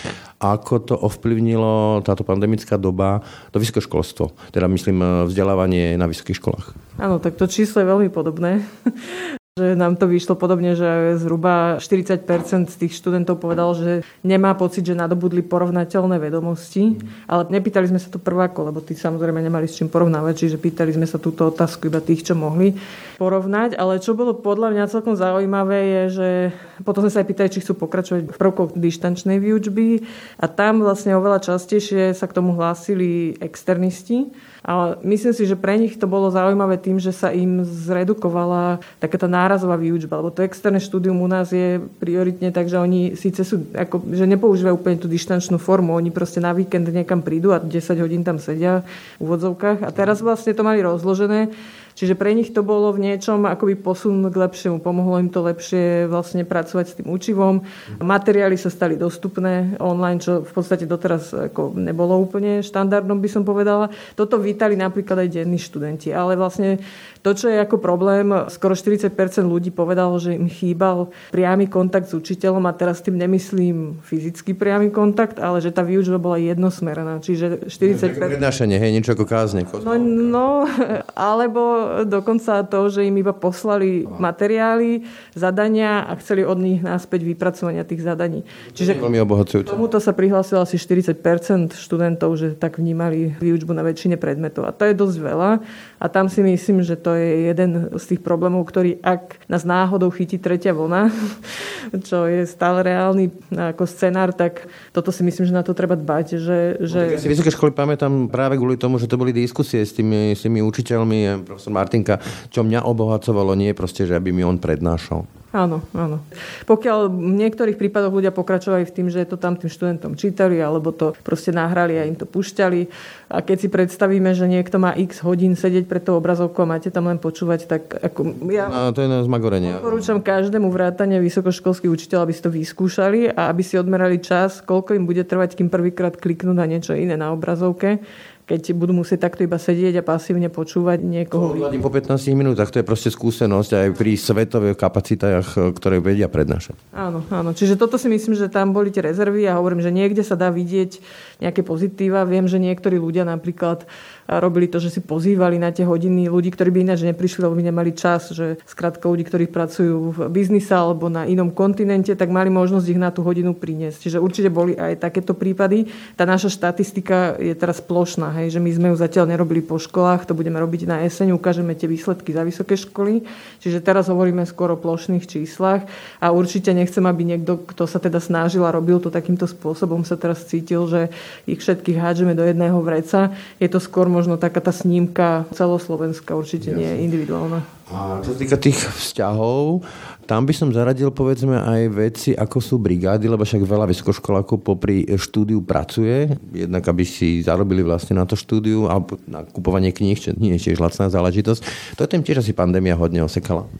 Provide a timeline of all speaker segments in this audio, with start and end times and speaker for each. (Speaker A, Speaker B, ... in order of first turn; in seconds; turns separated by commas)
Speaker A: 0.4-6.7, Speaker B: 7.0-78.4, Speaker A: 77.8-80.2, Speaker B: 79.8-89.1, Speaker A: 88.7-89.8, Speaker B: 89.6-107.3, Speaker A: 106.9-115.3, Speaker B: 115.5-128.8, Speaker A: 128.5-130.0, Speaker B: 129.6-141.7, Speaker A: 141.3-146.8, Speaker B: 146.9-187.7, Speaker A: 186.6-187.0, Speaker A: 187.9-203.7